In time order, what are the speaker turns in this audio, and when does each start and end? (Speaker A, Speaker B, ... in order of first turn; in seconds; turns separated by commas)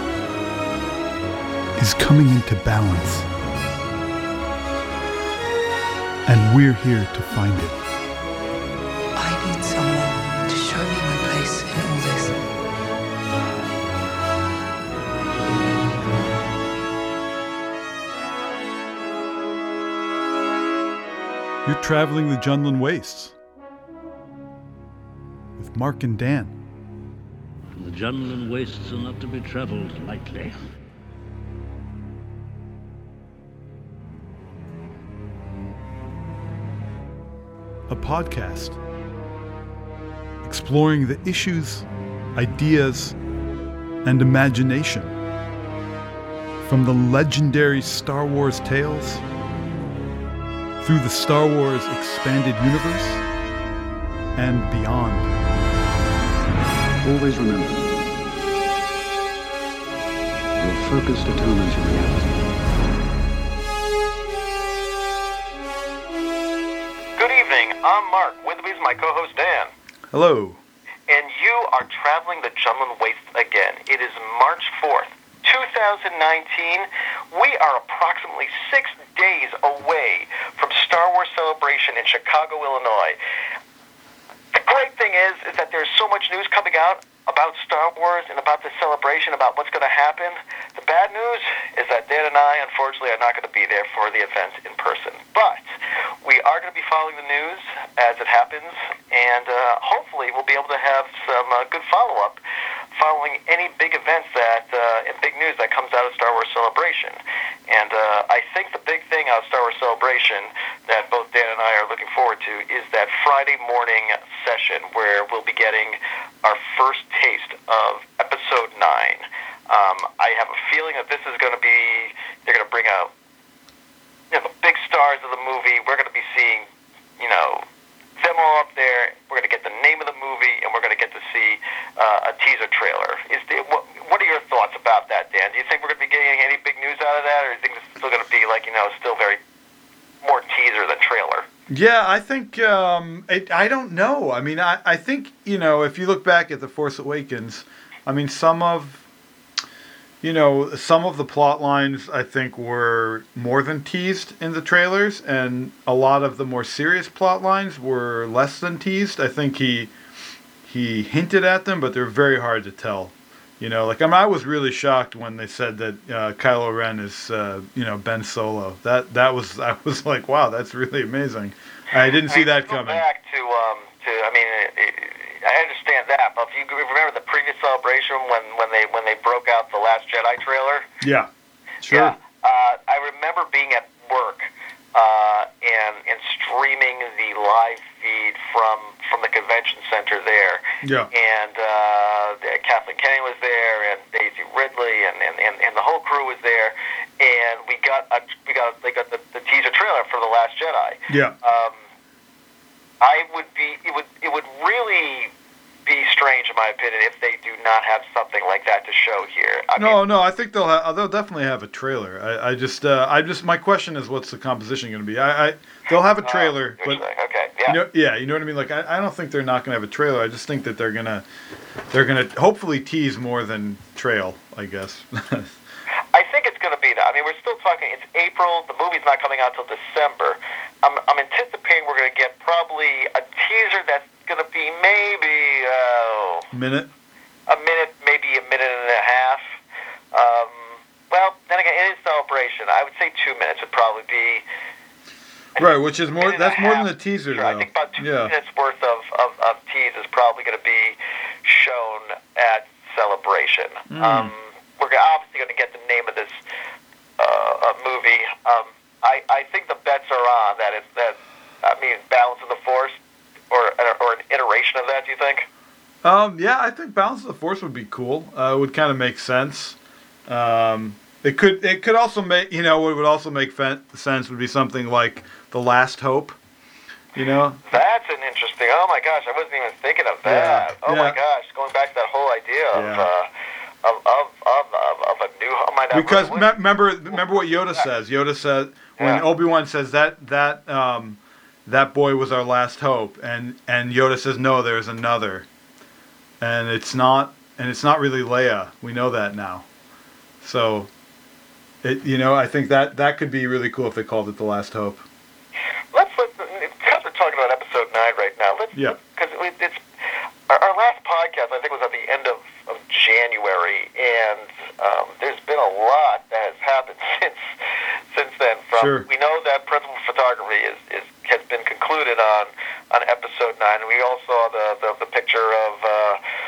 Speaker A: 1.8-3.3, Speaker A: 6.3-7.8, Speaker B: 9.2-12.3, Speaker A: 21.6-23.4, Speaker A: 25.6-26.6, Speaker C: 27.8-30.6, Speaker A: 37.9-38.8, Speaker A: 40.4-43.2, Speaker A: 44.0-45.2, Speaker A: 46.6-49.2, Speaker A: 50.8-53.2, Speaker A: 54.4-55.3, Speaker D: 57.0-57.9, Speaker D: 60.6-62.5, Speaker E: 67.2-69.7, Speaker A: 70.1-70.6, Speaker E: 71.1-83.2, Speaker E: 84.5-95.6, Speaker E: 96.2-102.4, Speaker E: 103.0-123.1, Speaker E: 124.3-126.7, Speaker E: 127.2-127.7, Speaker E: 128.2-139.4, Speaker E: 140.2-141.5, Speaker A: 141.7-149.0, Speaker A: 150.2-159.9, Speaker A: 160.6-173.0, Speaker E: 172.3-180.9, Speaker A: 181.0-181.3, Speaker A: 181.8-182.2, Speaker E: 181.9-201.8, Speaker A: 190.8-191.1, Speaker A: 201.1-201.3, Speaker E: 203.0-205.3, Speaker E: 205.9-210.0, Speaker A: 209.8-217.0, Speaker E: 216.2-217.8, Speaker A: 217.7-221.2, Speaker A: 221.9-225.5, Speaker E: 226.1-236.5, Speaker A: 236.5-236.9, Speaker E: 237.5-239.4, Speaker E: 240.1-244.4, Speaker A: 245.6-248.3, Speaker E: 245.6-256.4, Speaker A: 253.9-254.3, Speaker E: 257.2-263.0, Speaker E: 263.5-265.5, Speaker A: 266.0-276.4, Speaker A: 277.1-277.6, Speaker E: 277.7-283.3, Speaker A: 280.2-281.2, Speaker A: 282.7-283.1, Speaker E: 283.8-286.5, Speaker A: 285.9-295.5, Speaker E: 289.0-289.2, Speaker A: 296.4-299.7, Speaker A: 300.4-300.9, Speaker A: 301.8-305.0, Speaker E: 305.9-309.8, Speaker E: 310.5-317.4, Speaker E: 318.1-326.2, Speaker A: 318.8-319.1